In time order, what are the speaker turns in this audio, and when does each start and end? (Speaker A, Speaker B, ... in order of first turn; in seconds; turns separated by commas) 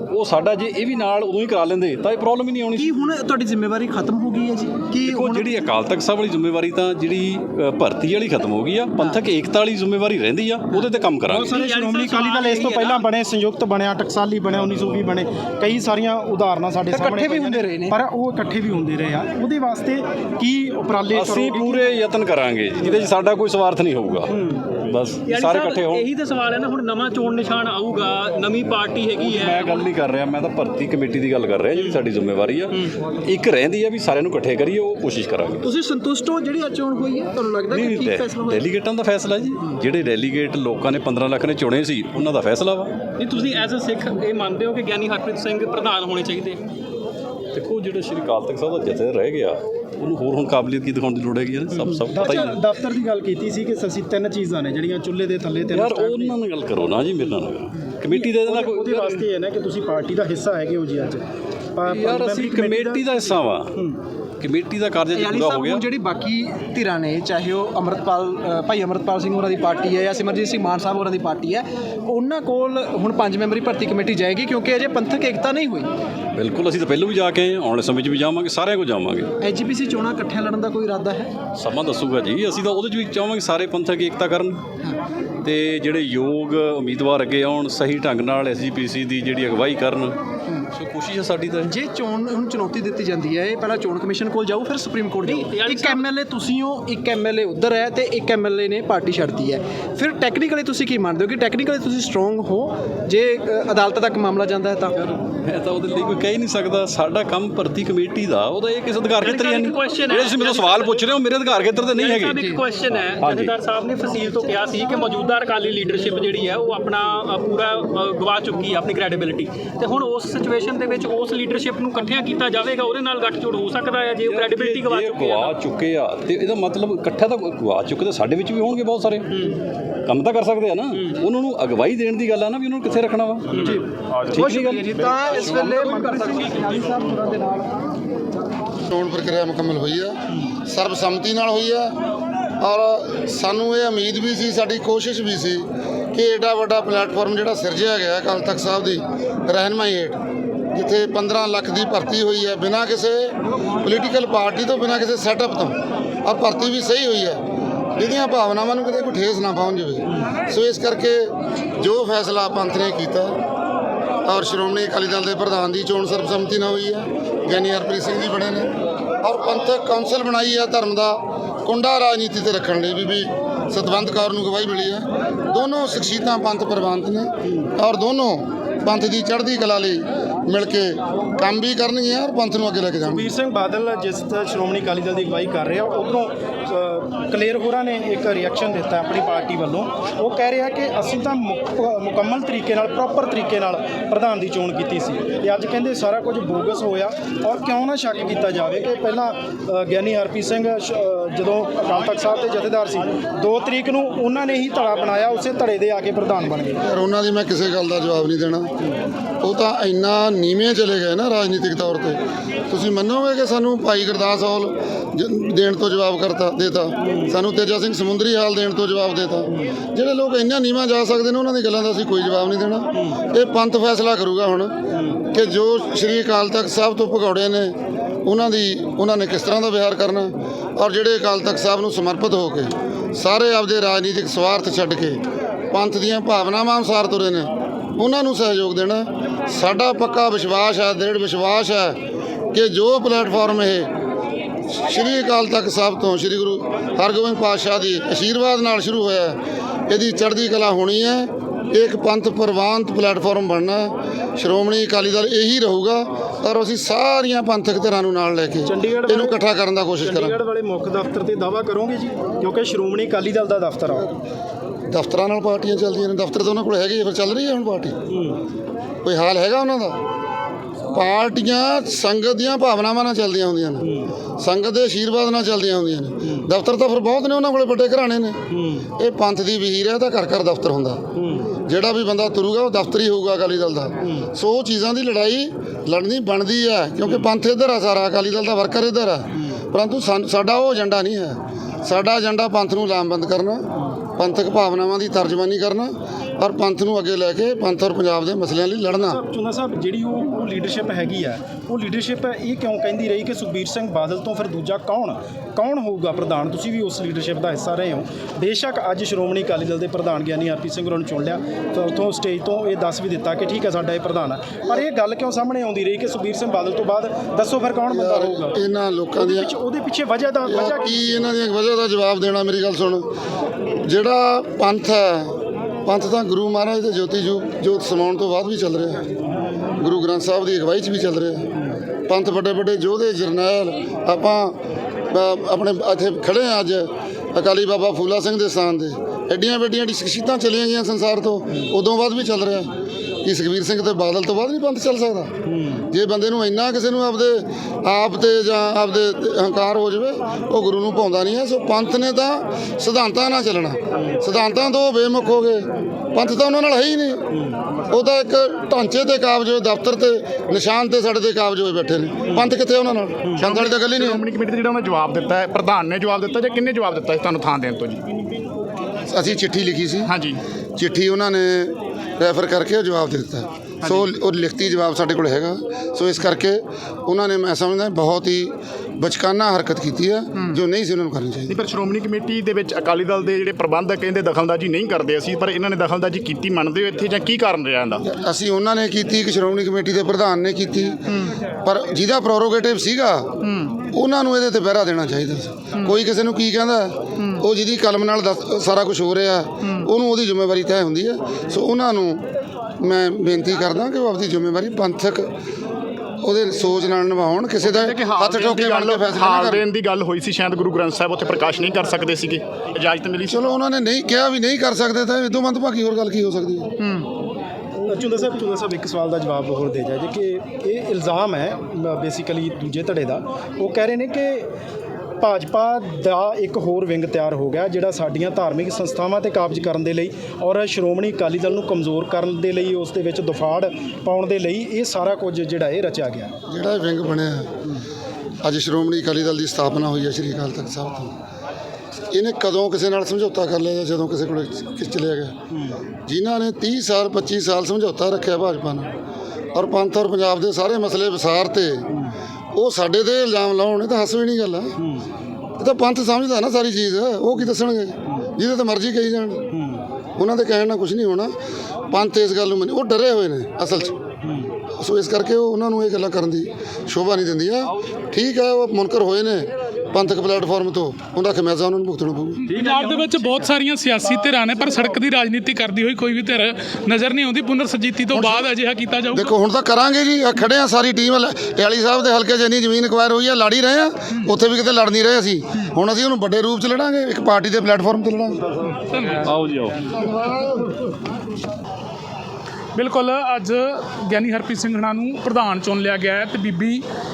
Speaker A: 0.1-2.9, Speaker B: 2.7-5.7, Speaker A: 5.1-11.4, Speaker B: 8.9-9.2, Speaker C: 11.2-21.9, Speaker D: 11.4-13.0, Speaker B: 16.9-18.0, Speaker A: 21.1-26.1, Speaker D: 25.3-29.7, Speaker A: 29.2-35.6, Speaker D: 31.7-32.0, Speaker B: 35.6-38.8, Speaker A: 37.7-42.9, Speaker D: 43.2-46.6, Speaker A: 47.5-52.5, Speaker C: 52.1-56.4, Speaker A: 55.7-59.3, Speaker C: 58.1-61.2, Speaker C: 61.7-64.0, Speaker A: 61.9-63.7, Speaker A: 64.4-65.8, Speaker B: 65.1-75.9, Speaker A: 76.3-79.3, Speaker B: 79.4-81.3, Speaker A: 81.5-84.6, Speaker A: 85.4-90.2, Speaker A: 90.7-91.7, Speaker B: 91.6-105.0, Speaker D: 95.4-96.0, Speaker A: 105.0-113.6, Speaker B: 109.2-110.0, Speaker D: 109.3-111.0, Speaker D: 112.0-125.4, Speaker B: 112.3-112.6, Speaker B: 114.2-115.0, Speaker A: 124.2-129.3, Speaker A: 130.1-133.6, Speaker E: 133.5-135.1, Speaker B: 133.5-137.8, Speaker A: 134.4-134.8, Speaker A: 135.4-135.8, Speaker F: 138.9-140.2, Speaker F: 140.7-141.9, Speaker F: 142.6-150.2, Speaker F: 150.7-157.4, Speaker F: 158.0-163.4, Speaker F: 164.2-168.7, Speaker F: 169.2-183.3, Speaker C: 183.0-206.8, Speaker F: 206.8-208.7, Speaker F: 209.4-235.2, Speaker F: 235.7-242.0, Speaker F: 242.5-243.9, Speaker F: 244.7-249.4, Speaker F: 249.9-260.4, Speaker C: 258.6-259.4, Speaker C: 260.0-264.2, Speaker F: 264.9-268.0, Speaker F: 269.0-270.0, Speaker F: 270.9-278.4, Speaker F: 279.0-281.0, Speaker F: 281.5-293.6, Speaker F: 294.2-299.2, Speaker C: 298.9-318.6, Speaker F: 317.9-319.5, Speaker C: 319.1-321.4, Speaker F: 320.5-323.1, Speaker F: 323.8-325.3, Speaker F: 325.9-329.1, Speaker F: 329.8-331.5, Speaker F: 332.1-334.6, Speaker F: 335.1-342.7, Speaker F: 343.2-345.3, Speaker F: 345.9-357.2, Speaker F: 357.9-364.2, Speaker E: 363.3-368.0, Speaker F: 369.1-370.1, Speaker E: 370.0-370.4, Speaker F: 370.8-381.6, Speaker E: 381.5-388.0, Speaker F: 388.0-391.1, Speaker F: 391.6-393.3, Speaker F: 393.9-402.2, Speaker F: 402.8-405.3, Speaker F: 406.2-409.7, Speaker E: 407.6-413.5, Speaker F: 413.3-416.7, Speaker C: 417.9-424.5, Speaker C: 425.2-436.3, Speaker F: 436.5-437.6, Speaker F: 438.4-441.1, Speaker F: 442.1-445.4, Speaker F: 446.1-448.9, Speaker F: 449.5-451.9, Speaker F: 452.5-454.8, Speaker F: 455.6-459.5, Speaker F: 460.2-461.3, Speaker F: 461.9-464.0, Speaker F: 464.8-472.4, Speaker G: 472.4-479.4, Speaker C: 472.5-473.0, Speaker F: 478.1-478.5, Speaker F: 479.1-488.4, Speaker G: 488.9-489.3, Speaker A: 489.3-489.8, Speaker G: 492.8-496.8